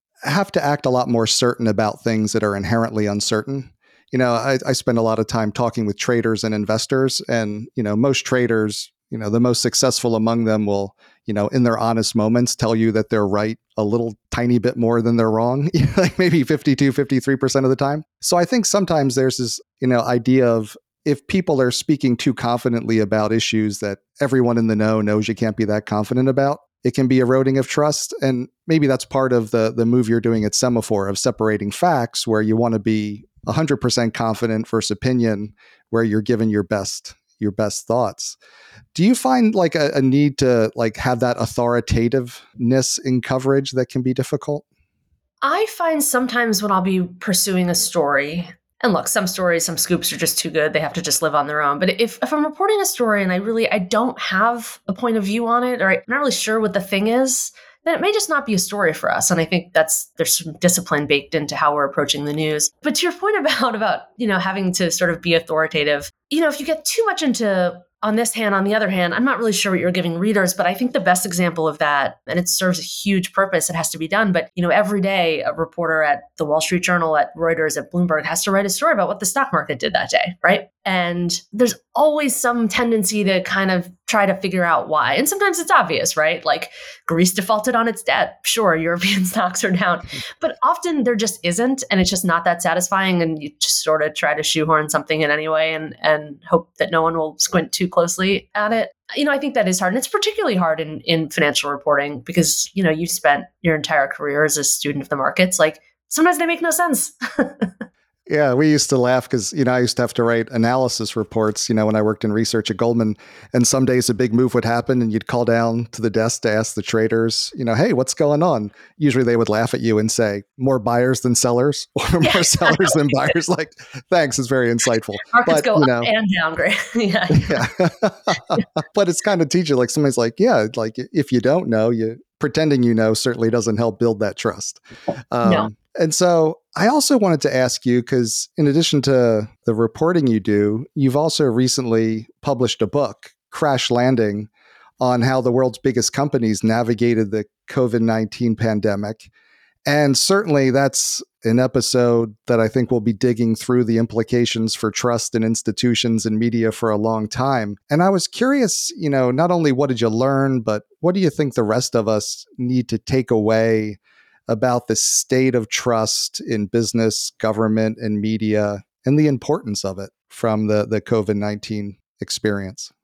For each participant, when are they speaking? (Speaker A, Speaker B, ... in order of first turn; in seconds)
Speaker A: 0.2-38.4, 38.9-44.6, 108.3-126.1, 127.4-144.5, 145.0-149.3, 149.9-172.9
Speaker B: 45.4-107.7, 122.2-123.4, 125.3-127.7, 135.4-135.7